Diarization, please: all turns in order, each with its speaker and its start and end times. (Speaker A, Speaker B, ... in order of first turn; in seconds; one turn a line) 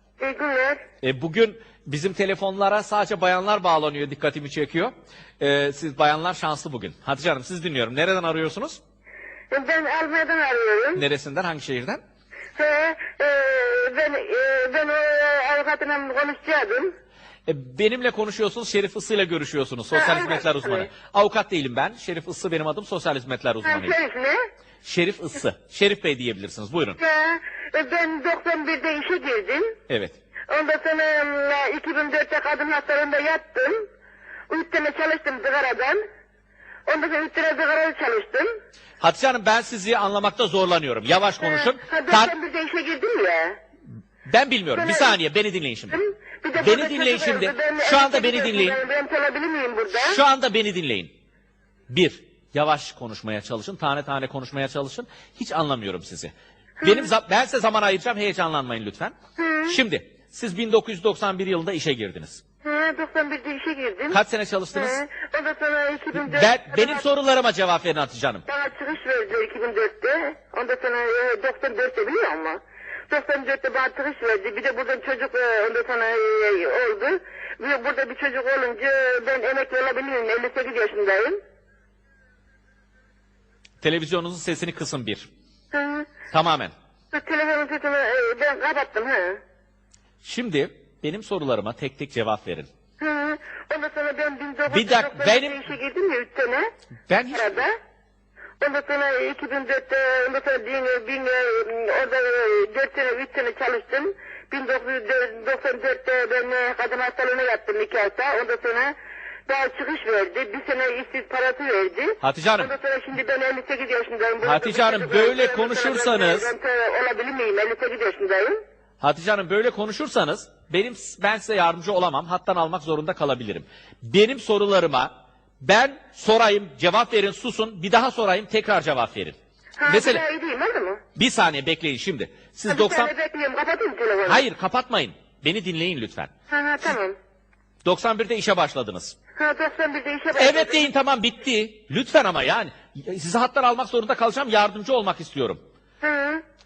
Speaker A: 0.2-0.8
Speaker B: 1.0-8.8
Speaker A: 9.5-11.0
Speaker B: 10.9-12.0
Speaker A: 12.6-16.9
Speaker B: 17.5-23.9
Speaker A: 19.9-20.9
Speaker A: 23.6-24.4
Speaker B: 24.8-27.0
Speaker A: 27.0-29.8
Speaker B: 29.9-30.1
Speaker A: 30.5-33.8
Speaker A: 34.5-36.0
Speaker A: 36.9-38.5
Speaker B: 39.0-42.3
Speaker A: 41.4-43.6
Speaker B: 44.3-46.0
Speaker A: 44.7-45.2
Speaker A: 45.9-50.2
Speaker B: 46.5-48.8
Speaker B: 49.9-51.1
Speaker B: 51.9-62.4
Speaker A: 56.8-57.1
Speaker A: 59.4-59.8
Speaker A: 62.6-64.2
Speaker B: 64.1-65.0
Speaker A: 64.7-67.0
Speaker B: 66.1-68.4
Speaker A: 68.5-72.6
Speaker A: 73.1-81.4
Speaker B: 83.8-85.3
Speaker A: 85.7-86.1
Speaker B: 86.3-86.7
Speaker A: 87.1-89.4
Speaker B: 90.2-92.7
Speaker A: 93.0-96.7
Speaker B: 94.7-95.6
Speaker B: 97.1-97.5
Speaker A: 97.3-97.7
Speaker A: 98.6-108.9
Speaker A: 109.5-118.5
Speaker B: 112.2-112.7
Speaker B: 114.4-116.5
Speaker B: 119.0-130.2
Speaker A: 129.8-131.0
Speaker B: 131.2-133.1
Speaker A: 132.7-134.4
Speaker B: 134.2-136.3
Speaker A: 136.5-137.2
Speaker B: 137.8-139.1
Speaker A: 139.4-140.8
Speaker B: 140.3-145.6
Speaker A: 146.0-146.4